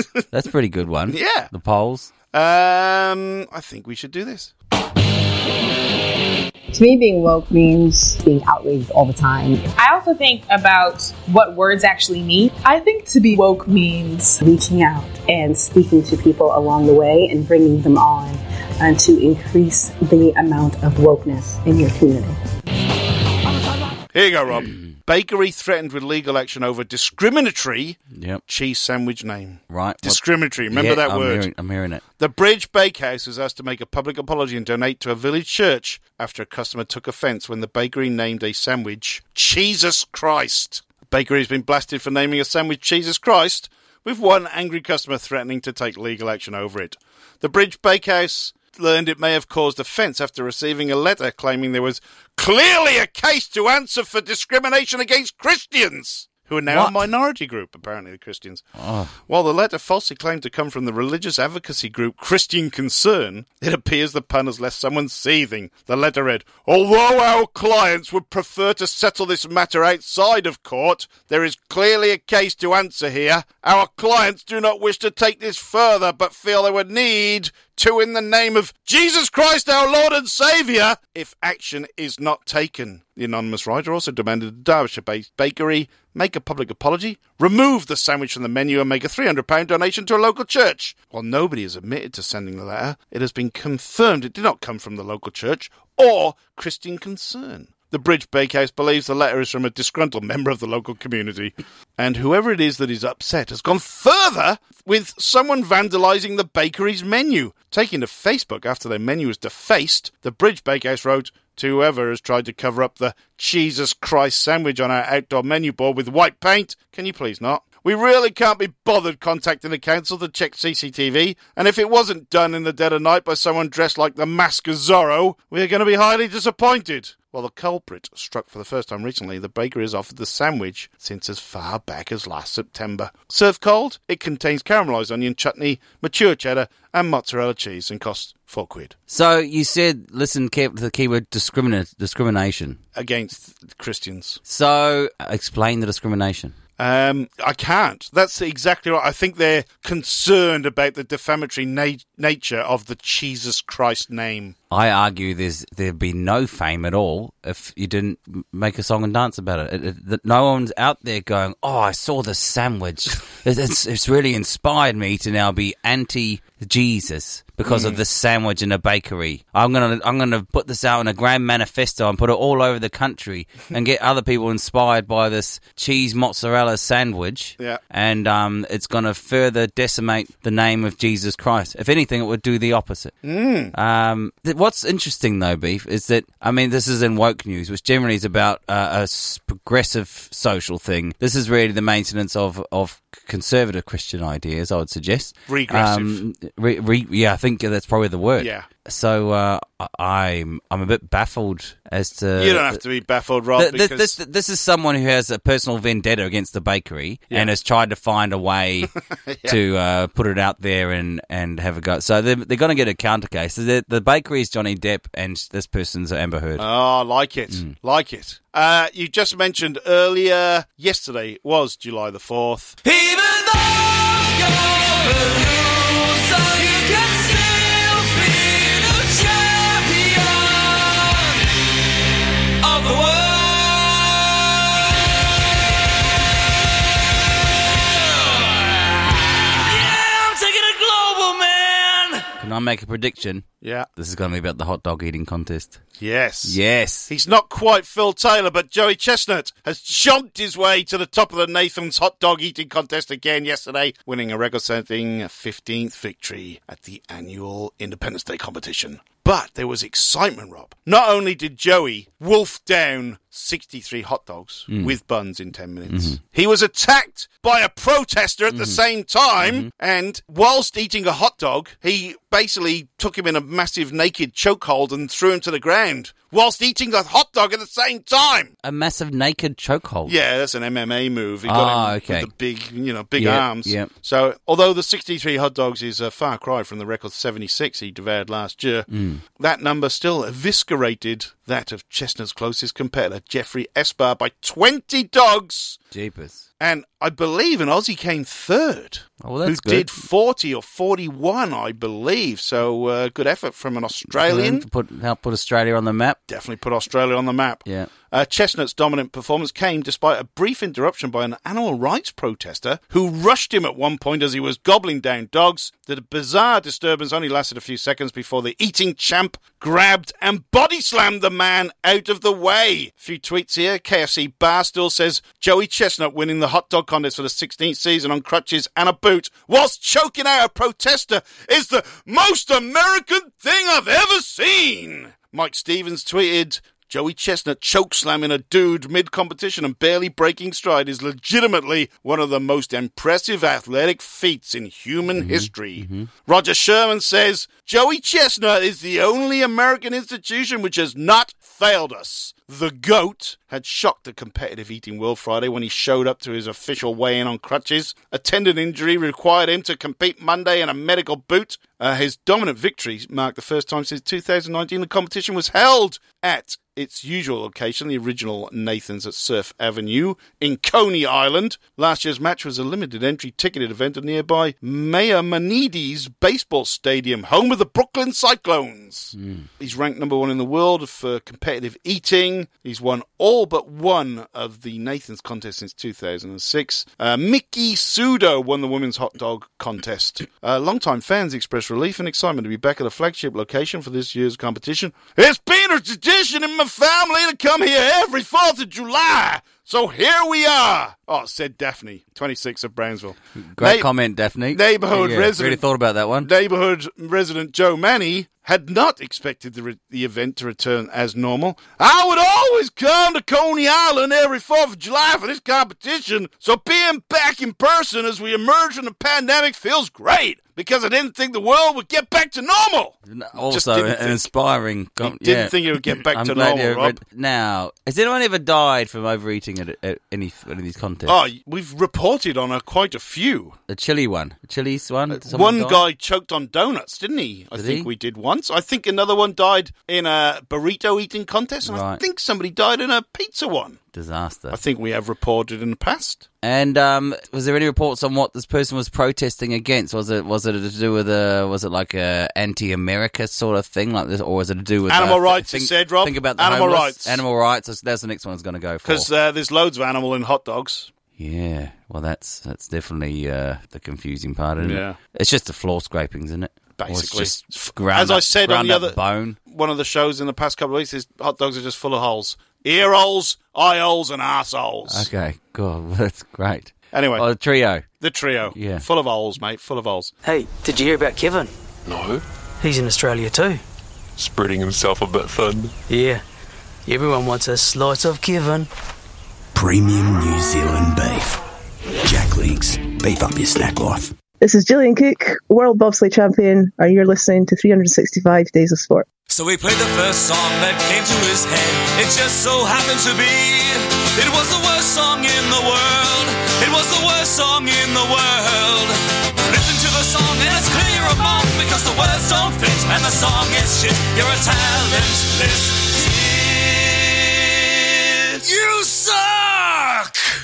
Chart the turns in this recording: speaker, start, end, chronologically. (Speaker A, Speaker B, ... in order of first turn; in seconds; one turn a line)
Speaker A: 0.3-2.1
Speaker B: 1.1-1.5
Speaker B: 2.3-4.5
Speaker C: 6.8-9.6
Speaker D: 9.7-14.4
Speaker C: 14.4-22.4
Speaker B: 24.1-31.5
Speaker A: 28.1-28.4
Speaker A: 29.7-32.0
Speaker B: 32.2-58.6
Speaker A: 56.7-57.0
Speaker A: 58.8-59.1
Speaker B: 59.3-138.9
Speaker A: 139.1-142.8
Speaker B: 142.9-144.4
Speaker A: 144.5-146.5
Speaker B: 146.8-154.5
Speaker A: 154.7-183.1
Speaker B: 167.6-168.0
Speaker B: 183.2-183.7
Speaker A: 183.7-202.8
Speaker B: 195.5-196.2
Speaker B: 198.4-198.7
Speaker B: 202.4-204.2
Speaker A: 203.6-208.9
Speaker B: 209.1-209.6
Speaker A: 209.4-216.7
Speaker B: 216.6-222.8
Speaker E: 222.8-231.4
Speaker E: 232.6-235.0
Speaker E: 237.8-242.3
Speaker A: 242.4-243.4
Speaker B: 243.6-243.9
Speaker A: 244.0-245.8
Speaker B: 246.0-278.5
Speaker A: 246.4-247.1
Speaker A: 265.9-266.2
Speaker A: 268.5-268.8
Speaker A: 269.4-269.7
Speaker A: 278.6-280.1
Speaker B: 280.1-295.8
Speaker A: 281.4-282.3
Speaker A: 283.2-283.9
Speaker A: 288.9-289.2
Speaker A: 295.9-296.4
Speaker B: 296.6-304.6
Speaker A: 299.2-299.9
Speaker A: 304.2-306.2
Speaker B: 306.3-403.9
Speaker A: 345.2-346.1
Speaker A: 379.2-379.5
Speaker A: 403.5-406.3
Speaker B: 404.5-405.6
Speaker B: 406.2-424.3
Speaker A: 423.1-431.1
Speaker B: 425.0-427.0
Speaker B: 431.1-433.6
Speaker A: 433.7-435.8
Speaker B: 435.1-443.8
Speaker A: 437.5-437.9
Speaker A: 441.6-442.0
Speaker A: 443.9-444.6
Speaker B: 444.5-446.2
Speaker A: 446.4-459.1
Speaker B: 454.9-457.2
Speaker B: 458.8-460.9
Speaker A: 461.2-469.4
Speaker B: 464.6-465.0
Speaker B: 466.8-475.1
Speaker A: 474.9-477.9
Speaker B: 476.9-477.3
Speaker B: 478.0-480.1
Speaker A: 478.5-478.8
Speaker F: 480.2-481.5
Speaker G: 481.9-482.2
Speaker F: 482.6-483.6
Speaker G: 484.1-485.7
Speaker F: 485.9-486.2
Speaker F: 486.9-488.7
Speaker H: 489.5-491.4
Speaker H: 492.0-494.1
Speaker I: 494.4-499.1
Speaker E: 499.3-520.2